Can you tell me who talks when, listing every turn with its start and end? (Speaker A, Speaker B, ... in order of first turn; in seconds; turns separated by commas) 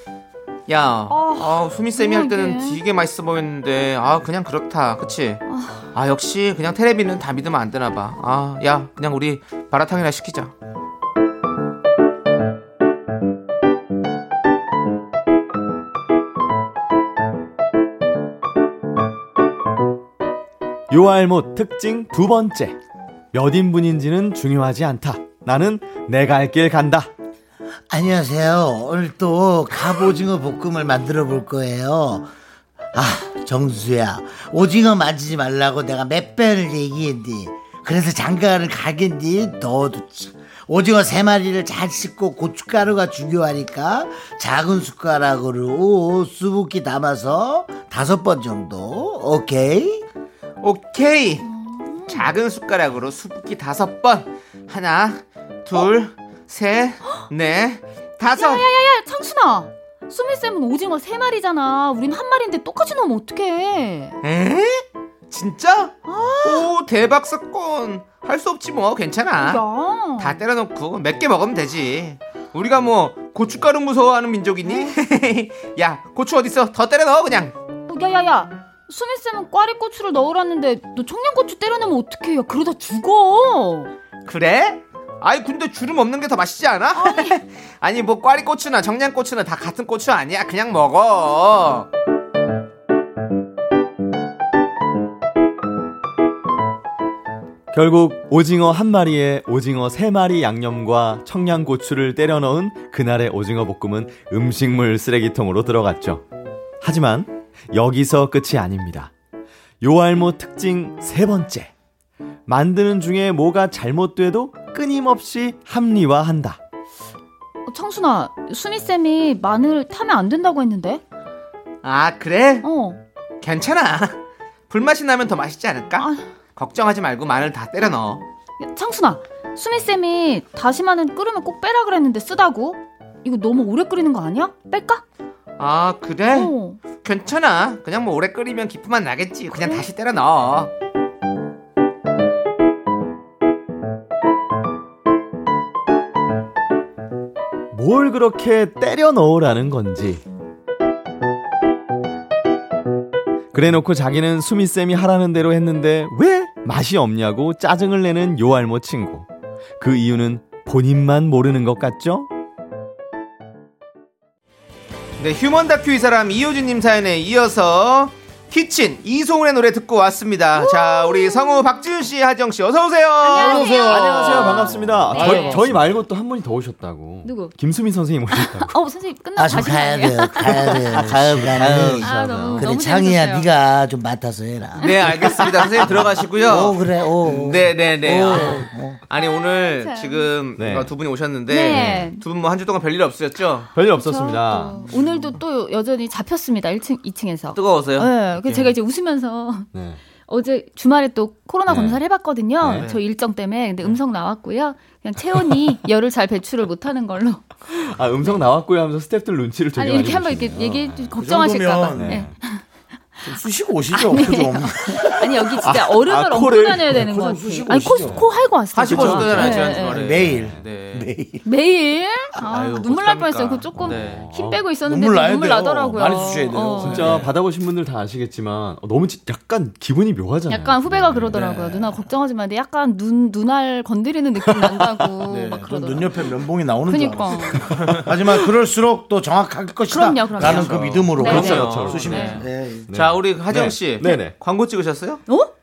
Speaker A: 0.7-5.4, Speaker B: 1.1-2.8, Speaker B: 5.5-5.8, Speaker A: 5.9-10.5, Speaker C: 20.9-22.8, Speaker C: 23.3-27.1, Speaker D: 27.9-32.3, Speaker D: 32.9-50.0, Speaker A: 50.6-51.5, Speaker B: 51.4-52.3, Speaker A: 52.1-58.6, Speaker B: 58.3-64.2, Speaker A: 64.2-69.6, Speaker B: 66.0-66.7, Speaker B: 69.4-70.4, Speaker A: 70.2-77.5, Speaker B: 74.7-74.9, Speaker B: 77.9-83.9, Speaker A: 84.2-91.9, Speaker B: 87.0-87.4, Speaker C: 97.7-106.2, Speaker C: 106.8-109.1, Speaker C: 109.8-111.7, Speaker C: 112.5-116.6, Speaker B: 117.7-121.0, Speaker A: 121.8-122.7, Speaker B: 122.6-123.0, Speaker A: 123.4-124.2, Speaker A: 124.7-128.2, Speaker B: 126.0-126.2, Speaker B: 128.6-135.0, Speaker A: 135.6-140.7, Speaker B: 136.3-136.8, Speaker B: 139.5-139.8, Speaker C: 147.7-150.2, Speaker C: 153.5-159.3, Speaker C: 159.8-162.3, Speaker A: 165.2-175.7, Speaker B: 170.6-171.8, Speaker B: 173.2-175.8, Speaker C: 173.4-178.7, Speaker B: 177.2-177.6, Speaker B: 178.3-181.1, Speaker D: 179.3-184.9, Speaker C: 180.6-182.7, Speaker B: 182.0-183.5, Speaker A: 184.8-193.7, Speaker B: 184.8-185.8, Speaker D: 186.4-189.0, Speaker B: 189.1-190.3, Speaker C: 190.6-190.9, Speaker B: 191.5-192.2, Speaker C: 191.7-192.1, Speaker C: 193.7-194.9, Speaker B: 193.9-207.4, Speaker A: 197.5-198.7, Speaker C: 199.7-200.0, Speaker C: 201.7-202.0, Speaker C: 202.6-202.9, Speaker A: 202.7-203.0, Speaker C: 207.7-211.1, Speaker B: 209.7-212.6, Speaker E: 211.2-212.2, Speaker C: 211.9-212.3, Speaker E: 213.2-215.6, Speaker B: 213.9-220.0, Speaker C: 215.6-217.1, Speaker E: 216.9-218.2, Speaker C: 218.0-218.3, Speaker A: 218.7-221.1, Speaker C: 218.9-219.6, Speaker E: 219.0-221.4, Speaker C: 220.1-220.6, Speaker B: 221.4-227.2, Speaker A: 222.4-224.3, Speaker C: 223.8-224.7, Speaker E: 224.8-227.3, Speaker C: 226.8-231.6, Speaker B: 230.5-236.3, Speaker E: 231.3-232.0, Speaker C: 234.4-235.0, Speaker E: 235.3-242.9, Speaker B: 236.8-238.4, Speaker B: 239.9-242.4, Speaker A: 240.4-245.2, Speaker C: 241.2-244.3, Speaker B: 245.3-245.5